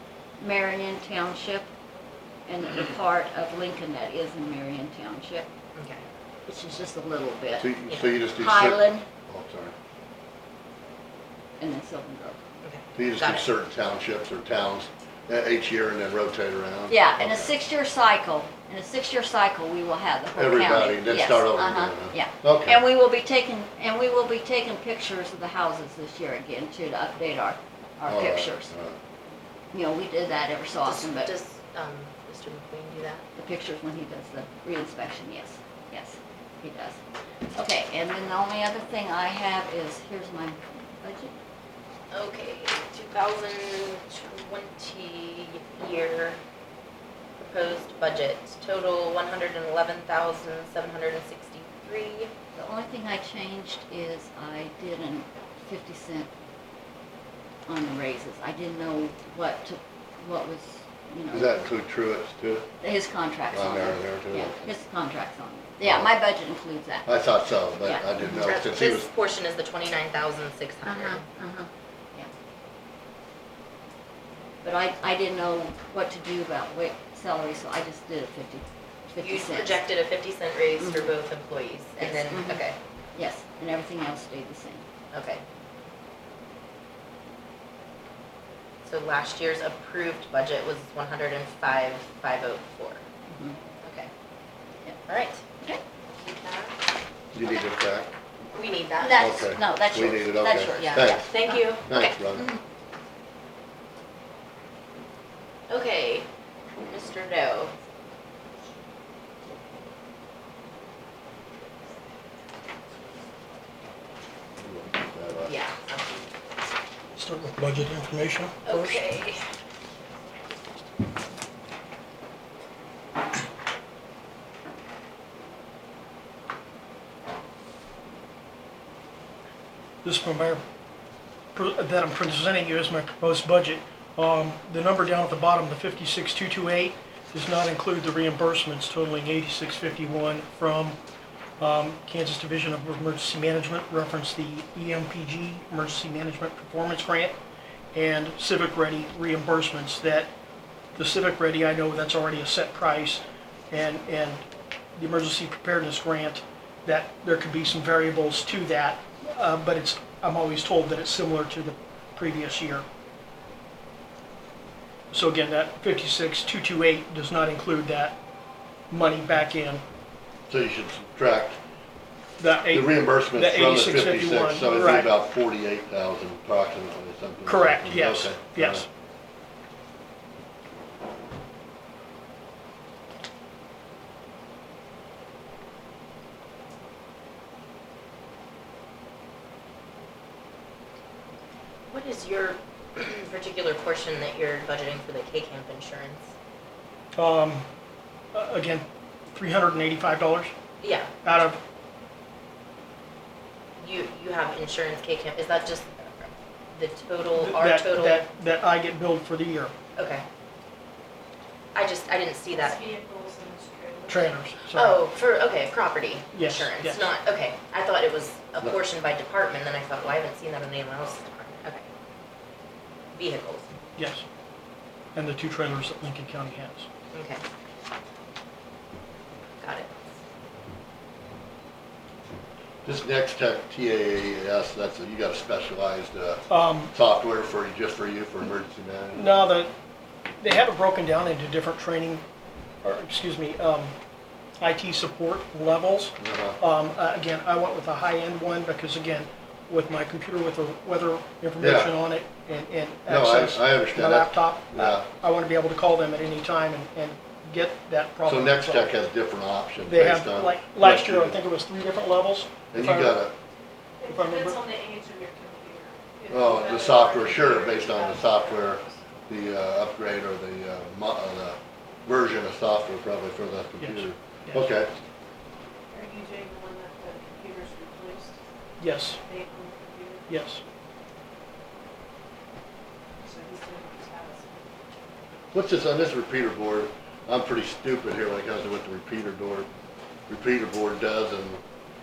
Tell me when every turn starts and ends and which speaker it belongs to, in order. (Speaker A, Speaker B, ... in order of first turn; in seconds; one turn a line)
Speaker A: 0.4-1.7
Speaker A: 2.5-5.5
Speaker B: 5.8-6.0
Speaker A: 6.5-9.1
Speaker C: 7.6-9.7
Speaker B: 7.9-8.2
Speaker A: 11.6-12.4
Speaker B: 12.6-13.5
Speaker C: 13.0-17.5
Speaker A: 16.9-28.7
Speaker C: 20.4-22.8
Speaker C: 28.1-29.0
Speaker A: 29.7-31.3
Speaker B: 30.9-33.3
Speaker A: 33.4-37.0
Speaker A: 37.5-41.3
Speaker B: 42.1-46.4
Speaker B: 47.4-52.3
Speaker A: 52.5-56.3
Speaker A: 57.7-61.7
Speaker C: 61.3-62.7
Speaker A: 62.8-67.1
Speaker C: 63.5-64.7
Speaker C: 65.8-66.1
Speaker C: 67.1-69.1
Speaker A: 67.8-68.5
Speaker B: 68.4-71.2
Speaker A: 70.8-72.3
Speaker A: 74.6-79.8
Speaker B: 79.2-82.8
Speaker A: 80.8-81.1
Speaker A: 82.0-84.8
Speaker B: 85.1-85.4
Speaker B: 88.8-93.0
Speaker A: 93.3-93.6
Speaker B: 93.8-94.1
Speaker B: 95.1-95.4
Speaker B: 96.1-96.8
Speaker C: 97.3-98.1
Speaker B: 98.5-99.3
Speaker A: 99.0-101.7
Speaker C: 99.2-102.5
Speaker B: 100.7-102.2
Speaker A: 102.3-102.6
Speaker B: 105.7-106.3
Speaker B: 106.8-107.7
Speaker C: 114.6-115.5
Speaker B: 115.4-116.3
Speaker D: 117.2-119.0
Speaker B: 118.7-119.4
Speaker D: 130.0-130.6
Speaker D: 131.6-141.0
Speaker E: 132.8-133.5
Speaker E: 140.4-140.7
Speaker D: 141.6-147.3
Speaker D: 147.9-150.3
Speaker D: 151.0-154.4
Speaker E: 152.7-153.0
Speaker D: 155.0-162.9
Speaker E: 156.9-157.4
Speaker E: 158.7-159.3
Speaker D: 165.1-168.2
Speaker D: 168.9-169.8
Speaker C: 170.5-171.6
Speaker D: 172.4-172.8
Speaker C: 172.7-178.8
Speaker D: 173.4-175.0
Speaker E: 173.7-175.0
Speaker D: 177.5-178.8
Speaker E: 177.8-178.8
Speaker B: 191.9-196.3
Speaker D: 197.2-197.6
Speaker D: 198.4-198.8
Speaker E: 199.4-199.9
Speaker D: 199.5-200.5
Speaker B: 200.8-201.1
Speaker D: 201.2-201.6
Speaker B: 203.8-208.2
Speaker D: 207.4-209.7
Speaker E: 207.9-208.5
Speaker B: 210.0-210.2
Speaker B: 211.8-212.9
Speaker E: 212.5-214.9
Speaker D: 214.1-214.8
Speaker B: 214.7-221.9
Speaker D: 216.3-217.0
Speaker B: 223.2-223.7
Speaker D: 224.0-224.3
Speaker D: 225.2-226.9
Speaker B: 227.1-227.4
Speaker B: 229.6-229.9
Speaker C: 232.8-239.3
Speaker D: 236.5-236.9
Speaker D: 239.2-239.7
Speaker D: 240.4-242.2
Speaker D: 242.8-243.9
Speaker D: 244.6-253.1
Speaker C: 246.2-246.6
Speaker E: 251.2-252.4
Speaker C: 251.6-251.9
Speaker E: 253.0-258.9
Speaker C: 253.1-255.1
Speaker D: 255.2-258.3
Speaker C: 258.3-261.4
Speaker E: 259.9-261.9
Speaker D: 261.4-262.6
Speaker C: 262.7-263.4
Speaker E: 262.8-263.1
Speaker E: 264.0-269.0
Speaker D: 264.1-264.6
Speaker C: 266.3-274.9
Speaker E: 275.9-278.4
Speaker D: 278.8-279.2
Speaker E: 279.2-280.4
Speaker D: 280.3-280.6
Speaker E: 283.2-284.7
Speaker C: 285.5-289.7
Speaker C: 290.3-291.6